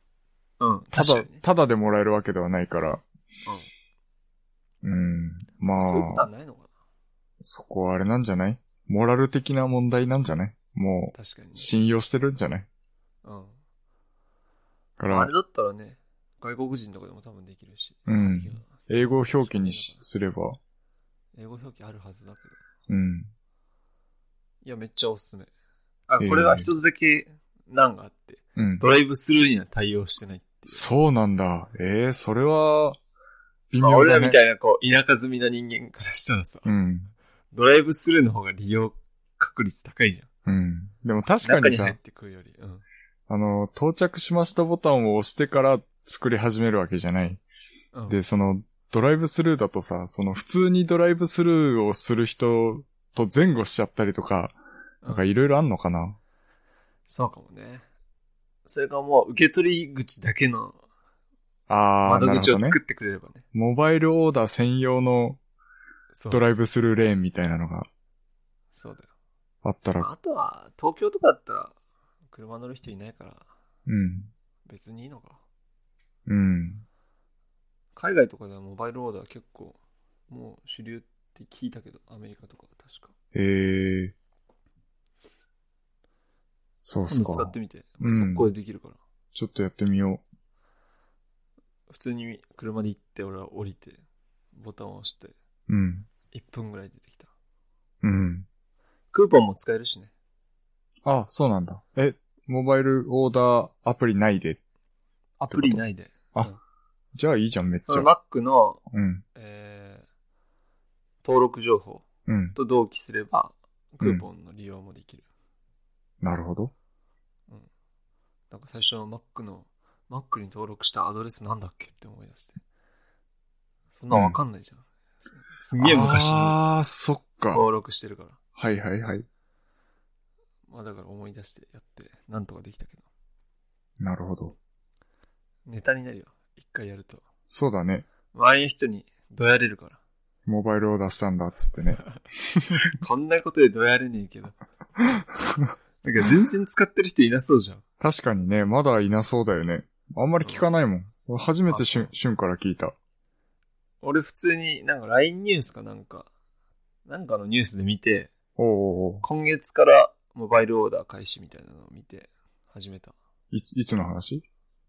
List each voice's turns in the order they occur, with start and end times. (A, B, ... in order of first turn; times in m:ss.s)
0:00.6-0:01.4 A
0:00.9-0:03.0 B
0:04.8-0:06.3 B
0:05.8-0:06.7 A
0:07.4-0:12.7 B
0:11.1-0:11.7 A
0:13.2-0:13.6 A
0:15.0-0:15.3 B
0:15.1-0:20.0 A
0:18.1-0:20.6 B
0:21.3-0:22.6 A
0:22.9-0:23.3 B
0:24.6-0:25.5 A
0:26.1-0:30.8 A
0:26.2-0:26.7 B
0:28.6-0:28.8 B
0:30.7-0:33.0 B
0:33.7-0:34.4 B
0:33.8-0:36.7 A
0:36.6-0:37.1 B
0:37.5-0:40.3 A
0:40.4-0:42.0 B
0:41.4-0:42.8 A
0:43.3-0:47.4 B
0:48.1-0:54.6 B
0:55.1-0:56.2 B
0:57.1-0:57.8 A
0:58.6-1:00.8 A
1:01.7-1:02.8 B
1:02.0-1:03.4 A
1:03.5-1:05.4 B
1:06.1-1:06.4 A
1:06.3-1:07.9 B
1:08.7-1:09.1 A
1:09.6-1:10.1 B
1:10.0-1:11.7 A
1:12.3-1:13.4 A
1:13.9-1:14.3 B
1:14.6-1:15.4 A
1:16.3-1:16.8 B
1:17.9-1:19.8 A
1:20.3-1:23.1 A
1:23.3-1:24.1 B
1:26.8-1:28.5 B
1:27.1-1:29.0 A
1:29.3-1:30.2 B
1:31.9-1:34.0 A
1:34.5-1:35.3 A
1:35.7-1:36.1 B
1:36.3-1:37.3 A
1:38.0-1:38.4 B
1:39.1-1:40.1 A
1:41.0-1:44.6 B
1:45.4-1:46.6 A
1:45.5-1:45.8 B
1:47.1-1:48.1 B
1:47.9-1:48.8 A
1:48.9-1:49.2 B
1:49.3-1:50.0 A
1:51.2-1:55.2 A
1:52.3-1:52.6 B
1:54.0-1:54.3 B
1:56.2-1:56.7 B
1:58.5-2:02.6 A
2:04.0-2:04.8 A
2:04.1-2:04.4 B
2:05.4-2:06.6 A
2:05.8-2:07.6 B
2:07.5-2:08.4 A
2:08.6-2:09.2 B
2:10.7-2:13.0 A
2:14.0-2:14.5 B
2:15.6-2:17.2 A
2:17.5-2:18.0 B
2:18.3-2:20.0 A
2:20.4-2:22.7 B
2:22.8-2:24.6 A
2:26.0-2:27.8 A
2:28.0-2:32.9 B
2:31.7-2:32.1 A
2:34.0-2:36.3 A
2:37.0-2:38.3 A
2:38.6-2:39.2 B
2:39.2-2:43.1 A
2:43.5-2:44.4 B